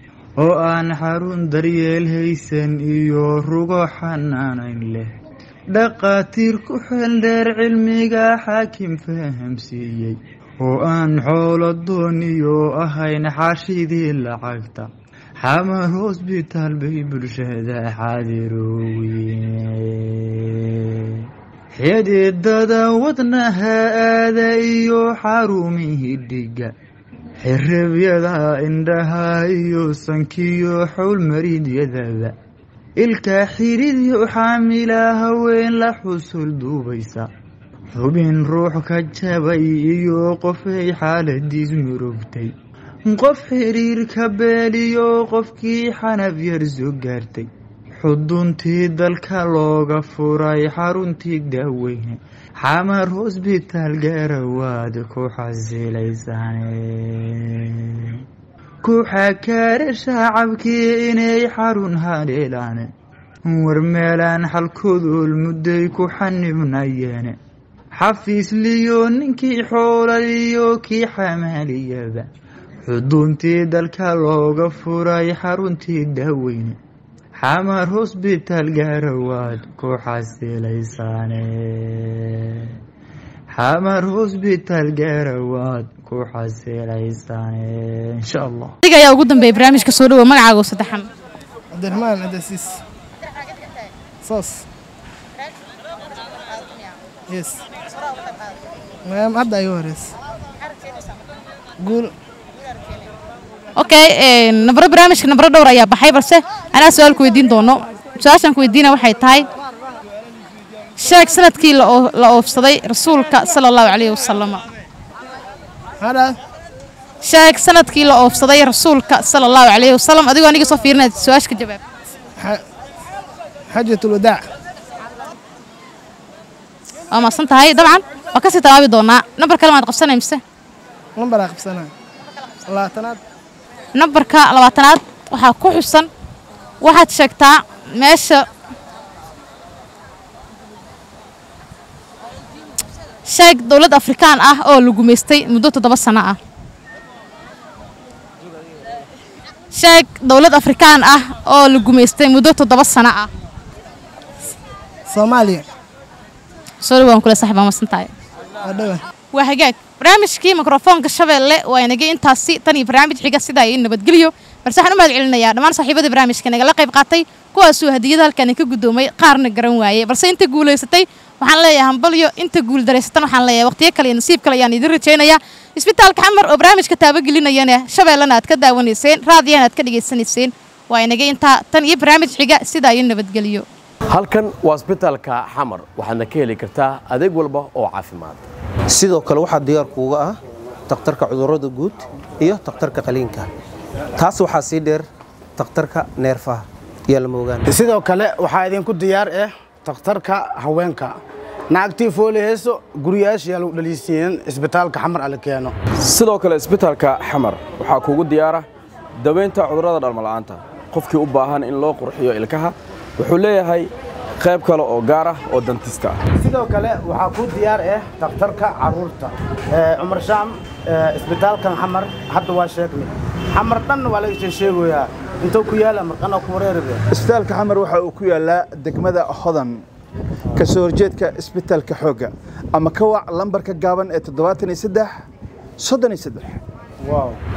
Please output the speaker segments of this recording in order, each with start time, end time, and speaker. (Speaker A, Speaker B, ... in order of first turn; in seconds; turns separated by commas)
Speaker A: 0.4-5.1, Speaker A: 5.7-14.9, Speaker A: 15.4-26.7, Speaker A: 27.4-32.4, Speaker A: 33.0-37.3, Speaker A: 38.0-42.5, Speaker A: 43.1-47.5, Speaker A: 48.0-58.2, Speaker A: 58.8-62.9, Speaker A: 63.5-67.4, Speaker A: 68.0-72.3, Speaker A: 72.8-76.8, Speaker A: 77.4-82.8, Speaker A: 83.6-88.7, Speaker B: 88.8-91.1, Speaker C: 91.7-92.7, Speaker C: 94.2-94.6, Speaker C: 97.3-97.6, Speaker C: 99.1-100.1, Speaker C: 101.8-102.1, Speaker B: 103.8-109.5, Speaker B: 111.0-114.6, Speaker C: 116.0-116.4, Speaker B: 117.2-121.8, Speaker C: 122.4-122.6, Speaker C: 123.7-124.5, Speaker B: 127.1-130.4, Speaker C: 131.2-131.9, Speaker C: 132.7-133.2, Speaker B: 133.9-136.1, Speaker B: 136.8-138.5, Speaker B: 143.3-146.4, Speaker B: 149.7-153.3, Speaker C: 155.1-155.6, Speaker B: 156.8-158.1, Speaker C: 158.7-159.0, Speaker B: 159.3-183.7, Speaker D: 184.1-188.5, Speaker E: 188.9-190.4, Speaker E: 190.9-193.5, Speaker E: 194.2-195.1, Speaker E: 195.6-197.7, Speaker F: 197.7-201.2, Speaker F: 201.7-205.8, Speaker G: 206.0-208.7, Speaker G: 209.2-213.9, Speaker G: 214.4-216.2, Speaker F: 216.4-227.0, Speaker H: 227.1-229.8, Speaker H: 230.6-235.1, Speaker H: 235.8-236.6